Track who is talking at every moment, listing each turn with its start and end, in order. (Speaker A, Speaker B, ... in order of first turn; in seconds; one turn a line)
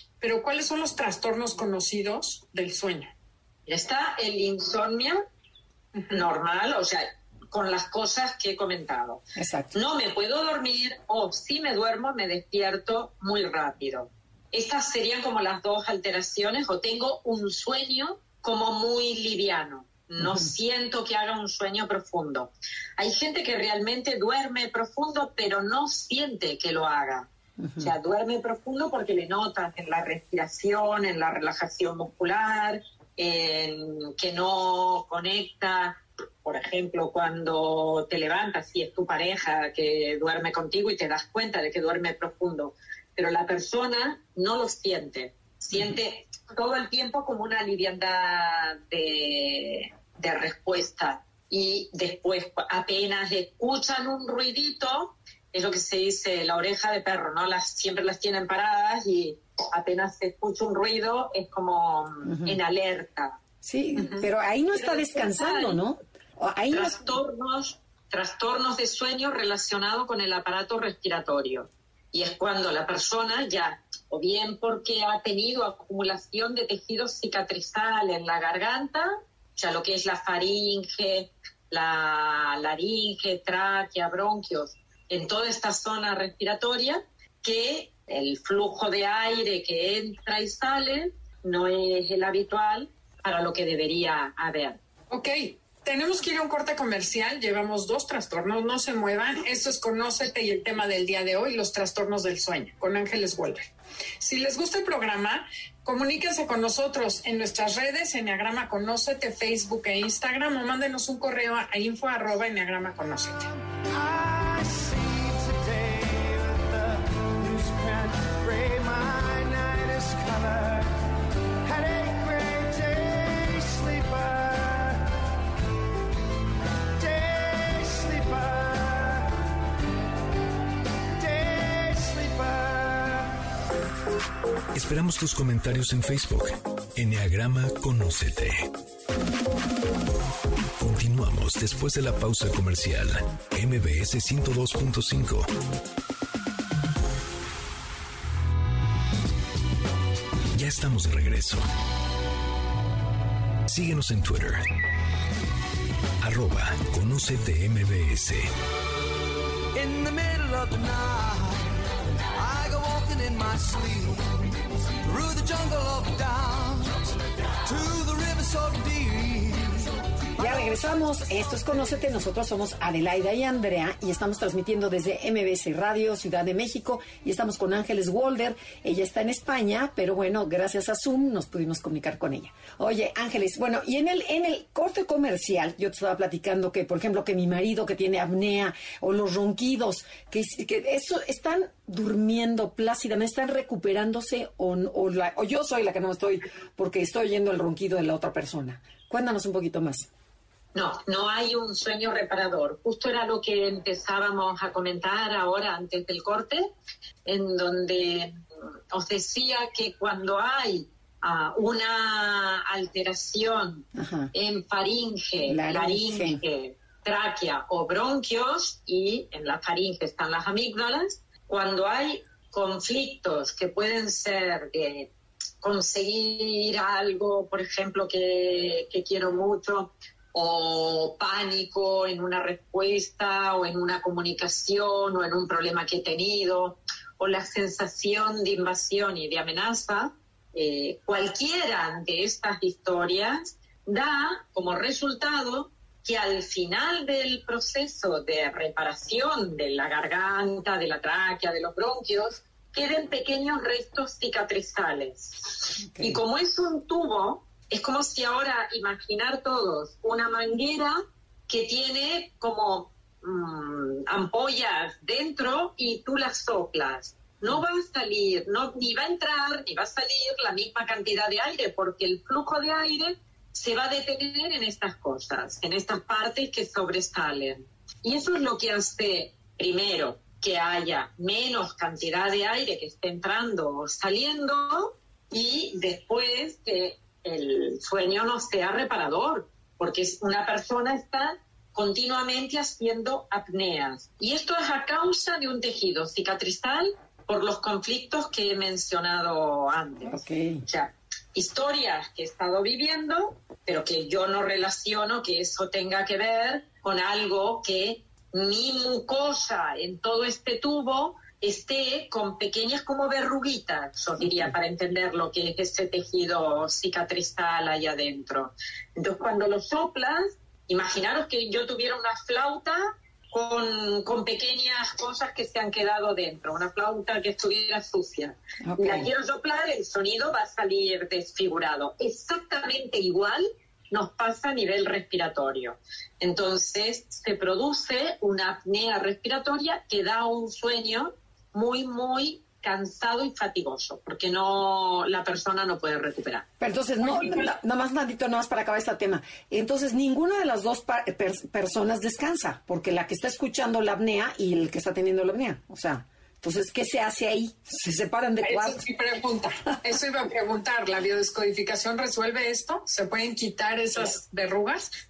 Speaker A: 0.2-3.1
Speaker B: 3.7-5.2
Speaker B: 6.1-63.4
Speaker C: 9.4-9.7
Speaker C: 20.2-20.4
Speaker C: 27.6-27.9
Speaker C: 62.2-62.6
Speaker C: 63.6-67.2
Speaker B: 64.0-65.8
Speaker B: 66.7-94.8
Speaker A: 95.1-103.7
Speaker A: 104.2-113.5
Speaker D: 113.9-120.9
Speaker D: 121.6-125.1
Speaker D: 127.0-129.3
Speaker D: 131.2-133.3
Speaker E: 134.7-138.7
Speaker E: 140.8-145.5
Speaker E: 150.5-151.7
Speaker E: 153.7-154.7
Speaker E: 156.2-158.5
Speaker D: 159.7-161.8
Speaker D: 162.3-167.1
Speaker D: 167.6-169.9
Speaker C: 170.4-200.1
Speaker B: 200.7-206.7
Speaker B: 207.2-208.3
Speaker B: 208.9-225.1
Speaker C: 213.9-214.3
Speaker C: 215.4-216.4
Speaker B: 225.6-346.4
Speaker C: 255.9-256.2
Speaker C: 300.1-300.6
Speaker C: 328.6-329.1
Speaker C: 346.6-358.8
Speaker B: 347.0-347.5
Speaker A: 358.4-364.9